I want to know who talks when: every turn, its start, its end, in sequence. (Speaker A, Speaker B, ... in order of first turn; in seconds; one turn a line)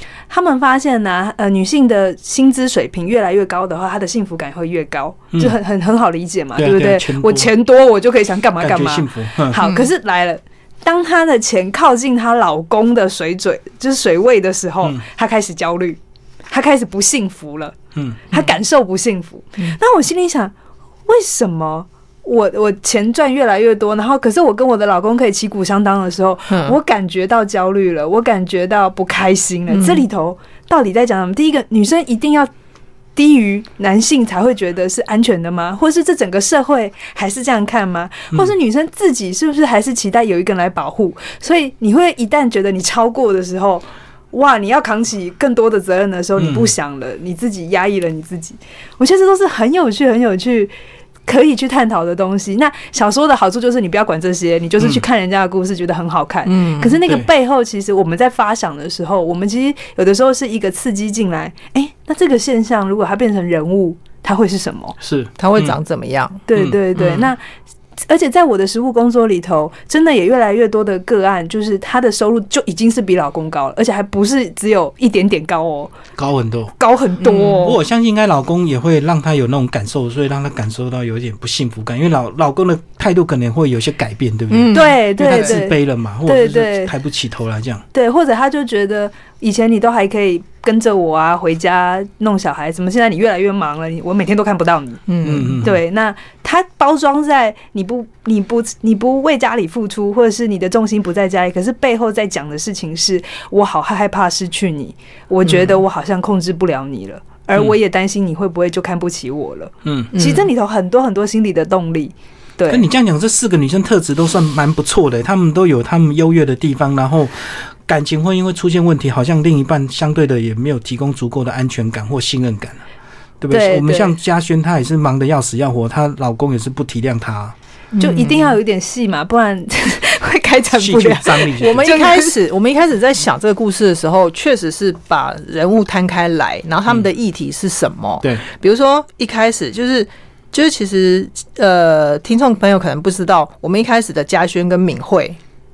Speaker A: 0.3-16.0
Speaker B: 6.5-7.5
Speaker B: 8.6-9.6
Speaker C: 9.6-9.9
Speaker A: 16.5-17.8
Speaker B: 17.9-18.2
Speaker A: 18.3-20.5
Speaker A: 21.1-32.5
Speaker C: 26.5-26.8
Speaker C: 29.7-30.1
Speaker A: 33.2-50.7
Speaker B: 46.4-46.7
Speaker A: 51.3-65.0
Speaker C: 56.5-57.0
Speaker B: 65.0-65.8
Speaker C: 65.4-66.4
Speaker A: 66.5-67.4
Speaker C: 67.0-67.3
Speaker A: 68.1-75.9
Speaker B: 76.2-76.7
Speaker A: 76.8-77.8
Speaker C: 77.2-77.7
Speaker B: 77.6-87.8
Speaker C: 84.5-85.6
Speaker A: 84.7-86.9
Speaker A: 87.9-95.0
Speaker C: 95.1-95.6
Speaker B: 95.2-95.8
Speaker A: 95.6-112.9
Speaker C: 105.4-105.8
Speaker B: 109.8-110.1
Speaker C: 110.1-110.5
Speaker B: 112.7-122.8
Speaker B: 123.4-127.5
Speaker A: 123.5-124.1
Speaker C: 127.9-128.6
Speaker A: 128.0-132.4
Speaker B: 130.7-131.9
Speaker C: 131.4-145.4